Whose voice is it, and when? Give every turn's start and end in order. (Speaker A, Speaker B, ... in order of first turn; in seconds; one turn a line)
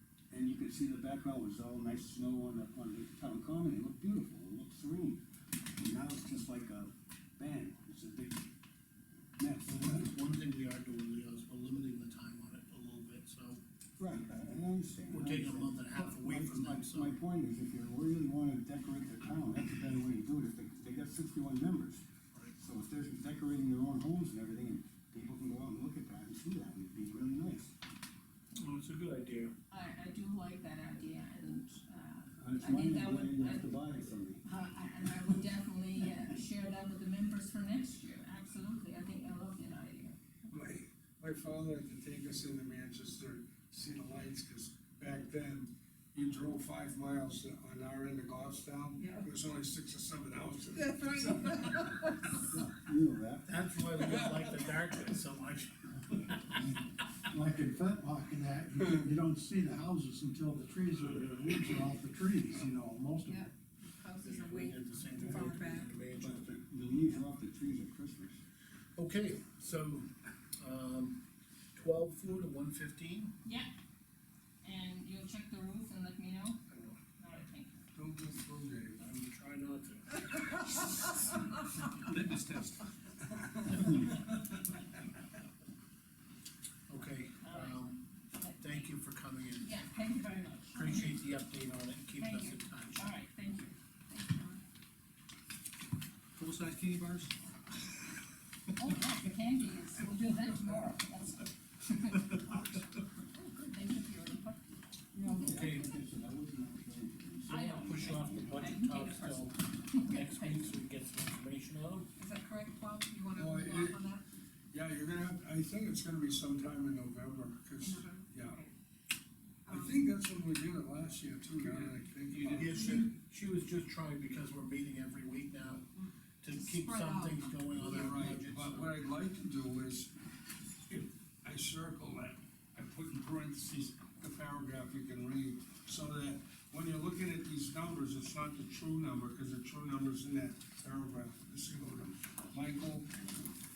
Speaker A: 0.3-5.2
Speaker A: 5.8-8.5
Speaker A: 9.4-10.1
Speaker B: 9.7-13.6
Speaker A: 14.0-22.0
Speaker B: 15.1-17.2
Speaker A: 22.6-27.7
Speaker B: 28.6-29.5
Speaker C: 29.7-33.7
Speaker A: 32.4-34.5
Speaker C: 34.5-40.2
Speaker D: 40.5-51.9
Speaker E: 49.0-49.3
Speaker E: 50.7-52.4
Speaker A: 52.3-53.6
Speaker B: 53.5-56.5
Speaker F: 57.3-63.3
Speaker B: 57.9-58.3
Speaker E: 63.2-65.9
Speaker B: 64.2-66.5
Speaker A: 66.2-68.4
Speaker B: 69.0-71.2
Speaker B: 71.8-73.3
Speaker C: 73.4-73.7
Speaker C: 74.6-76.6
Speaker B: 76.7-77.0
Speaker C: 77.2-77.7
Speaker D: 78.0-79.0
Speaker B: 79.0-81.1
Speaker B: 82.0-82.8
Speaker D: 83.4-84.3
Speaker B: 86.9-88.0
Speaker C: 87.4-87.8
Speaker C: 88.3-88.8
Speaker B: 88.6-89.7
Speaker C: 89.6-91.2
Speaker B: 90.7-93.1
Speaker C: 92.2-94.6
Speaker B: 96.4-97.3
Speaker C: 98.8-102.5
Speaker C: 103.4-104.6
Speaker E: 105.2-105.6
Speaker B: 105.3-105.9
Speaker A: 105.4-108.1
Speaker C: 107.5-110.5
Speaker B: 107.5-112.1
Speaker E: 112.2-114.3
Speaker D: 113.3-114.0
Speaker D: 114.7-118.6
Speaker E: 117.8-118.7
Speaker E: 119.7-120.1
Speaker D: 119.7-123.0
Speaker B: 121.6-125.9
Speaker E: 122.8-123.0
Speaker E: 126.0-128.2
Speaker B: 126.4-128.9
Speaker D: 127.8-130.1
Speaker D: 130.9-143.2